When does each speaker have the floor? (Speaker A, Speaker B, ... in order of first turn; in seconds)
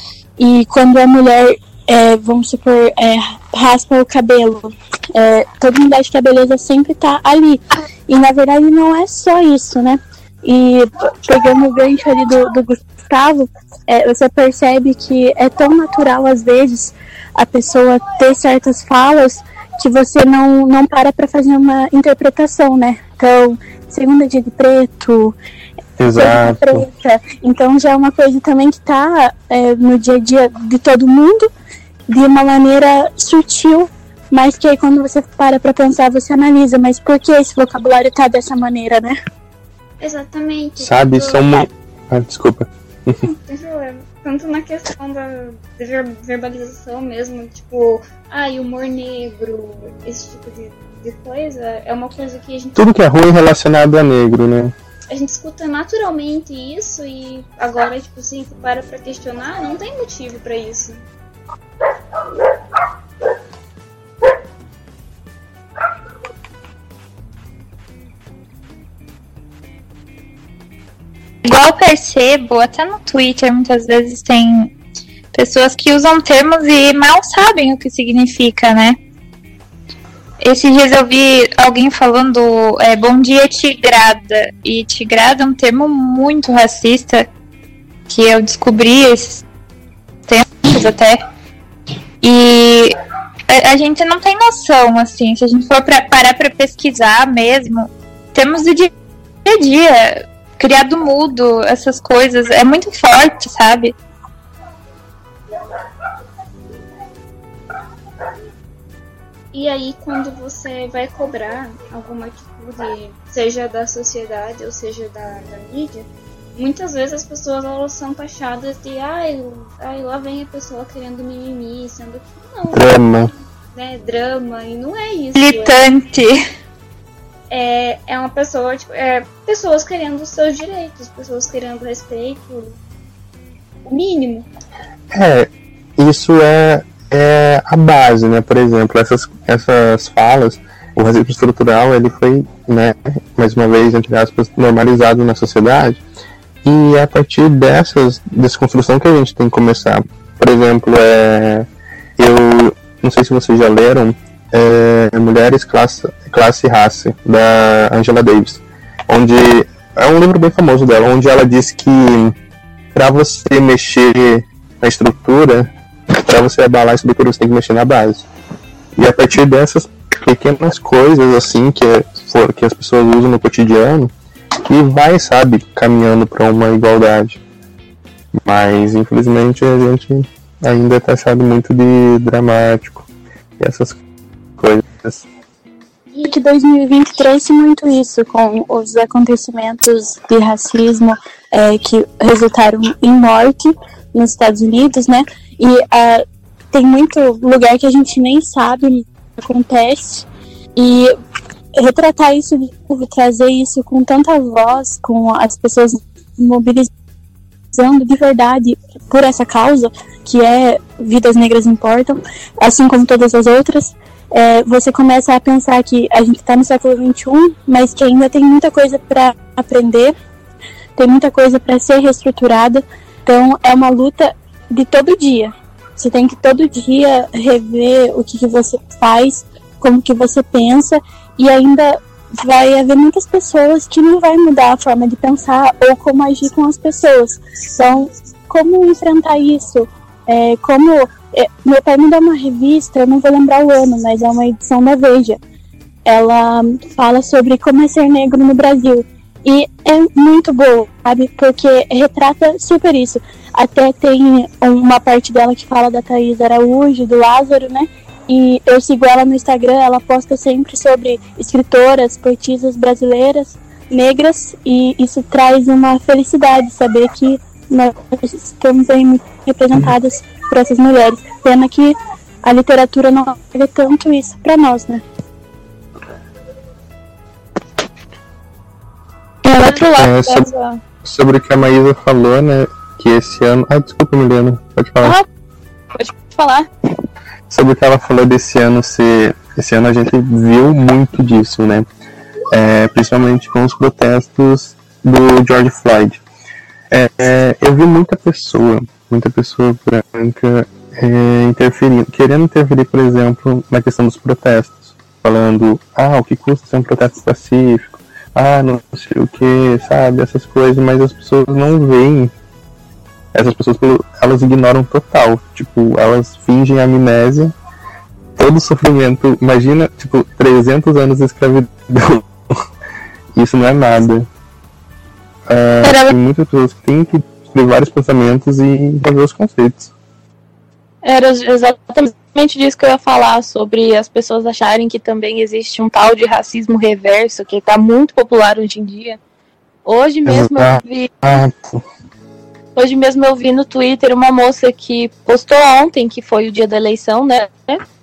Speaker A: 0.4-25.4, 26.1-31.5, 32.1-39.1, 186.2-201.1, 201.8-206.9, 207.7-220.1, 221.0-245.4, 246.1-275.0
Speaker B: 26.0-26.9, 40.8-43.2, 52.8-54.7, 122.7-123.3, 135.1-146.0, 146.6-162.3, 162.9-168.3, 168.9-174.1, 174.7-177.4, 178.4-183.1, 183.6-184.0, 184.6-185.3, 279.9-280.5, 281.0-285.2, 287.5-291.9, 292.5-296.2, 296.9-312.3, 313.3-317.5, 318.4-322.6, 323.3-324.3, 325.5-329.9, 340.2-341.8
Speaker C: 40.0-41.6, 43.2-52.9, 55.1-61.0, 109.5-123.0, 123.7-125.8, 127.5-132.8, 133.8-134.5, 186.1-186.4
Speaker D: 71.4-74.7, 75.3-79.0, 80.4-87.3, 88.1-89.4, 90.3-91.2, 92.2-92.9, 93.5-98.9, 99.4-103.9, 125.3-126.4, 279.4-280.8
Speaker E: 279.5-279.8, 285.9-286.7, 331.0-339.2, 339.9-341.4, 342.8-347.8